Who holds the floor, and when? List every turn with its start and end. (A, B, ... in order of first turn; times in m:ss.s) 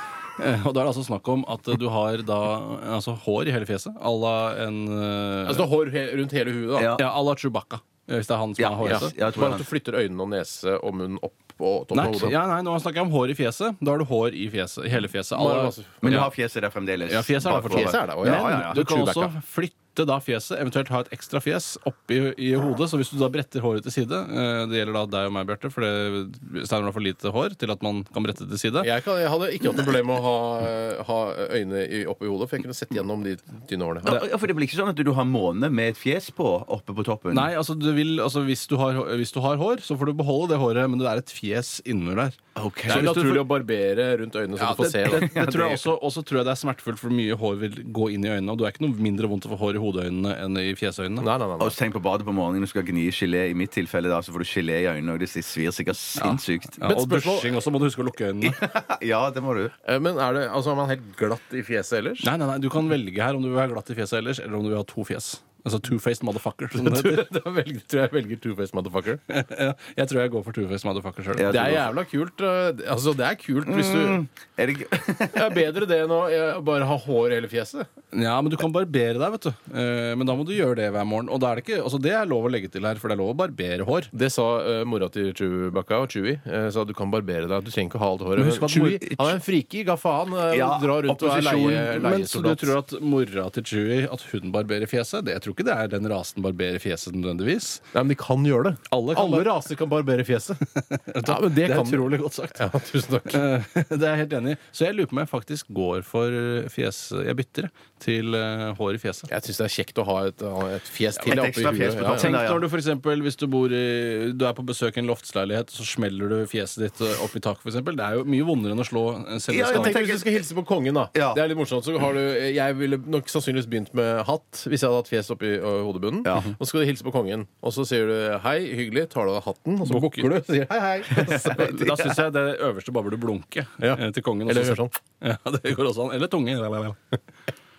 0:00.4-0:05.6 A
0:05.4-0:07.0 B
0:06.8-0:07.0 C
0:06.9-0:09.1 A
0:08.6-0:09.6 C
0:08.8-0:12.4 B
0:11.9-0:16.3 A
0:15.3-0:16.2 B
0:16.0-0:18.8 C
0:17.1-0:28.9 A
0:17.5-0:19.3 B
0:28.8-0:34.2 B
0:34.0-0:37.5 C
0:37.3-0:43.5 A
0:42.6-0:43.2 C
0:42.9-0:45.3 B
0:44.6-0:51.3 A
0:45.0-0:45.9 C
0:51.2-0:51.7 B
0:51.6-0:56.9 C
0:56.2-0:58.6 A
0:56.8-0:57.5 B
0:58.4-0:59.7 C
0:59.8-1:02.3 B
1:02.2-1:07.3 A
1:06.7-1:09.2 B
1:09.3-1:11.8 A
1:11.4-1:11.9 C
1:11.5-1:14.2 B
1:13.6-1:15.6 C
1:15.3-1:17.9 B
1:18.1-1:24.1 A
1:24.1-1:32.7 B
1:28.4-1:29.0 A
1:28.7-1:29.3 C
1:30.5-1:32.0 C
1:31.9-1:37.8 A
1:37.9-1:40.6 B
1:38.9-1:39.5 A
1:40.7-1:42.6 A
1:41.2-1:43.4 B
1:43.3-1:49.3 A
1:49.3-1:52.3 B
1:51.2-1:52.6 C
1:52.1-2:00.0 A
1:59.5-2:00.4 C
1:59.7-2:11.8 B
2:01.1-2:01.4 C
2:06.2-2:06.5 C
2:09.8-2:10.3 A
2:11.1-2:12.2 C
2:11.6-2:17.0 A
2:13.8-2:14.9 B